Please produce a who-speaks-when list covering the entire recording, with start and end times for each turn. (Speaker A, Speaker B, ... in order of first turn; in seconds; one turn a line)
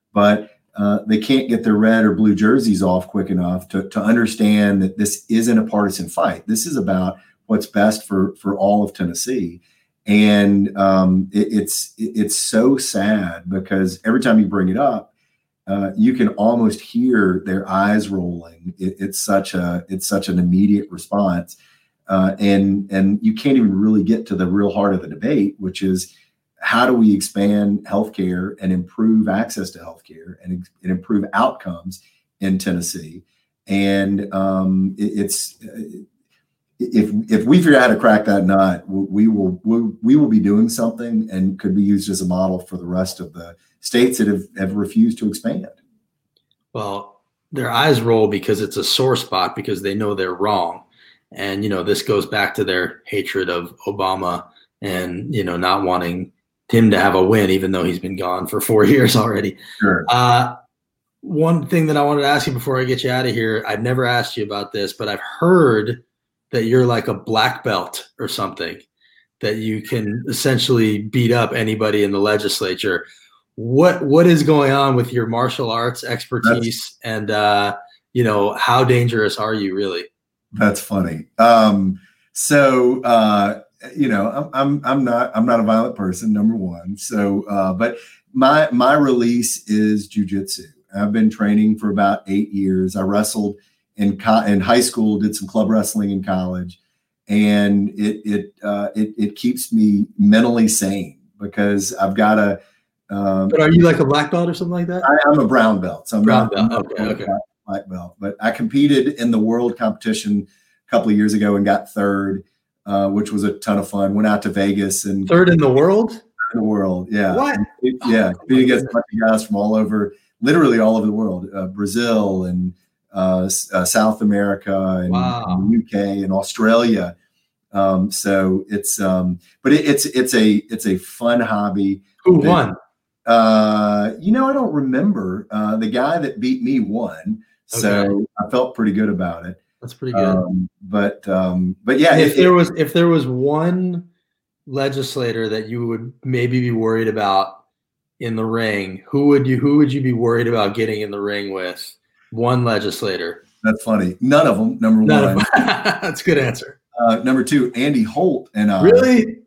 Speaker A: 0.1-15.1
Speaker A: 15.7-21.6
Speaker A: 22.1-36.0
Speaker A: 36.8-45.8
Speaker B: 46.7-60.5
Speaker A: 59.8-60.1
Speaker B: 61.2-68.9
Speaker B: 69.4-73.1
Speaker B: 73.6-80.1
Speaker A: 80.5-102.6
Speaker A: 103.1-103.9
Speaker B: 103.5-105.1
Speaker A: 105.0-115.4
Speaker B: 106.2-107.3
Speaker B: 115.3-116.2
Speaker A: 116.5-127.1
Speaker B: 117.3-118.9
Speaker B: 125.1-125.7
Speaker A: 127.7-132.6
Speaker B: 132.2-132.8
Speaker A: 133.3-139.6
Speaker B: 137.7-138.1
Speaker B: 139.8-140.4
Speaker A: 140.1-142.6
Speaker B: 142.1-144.1
Speaker B: 144.7-147.6
Speaker B: 148.2-153.4
Speaker A: 153.6-155.5
Speaker B: 155.1-156.8
Speaker A: 157.0-159.1
Speaker B: 158.8-159.4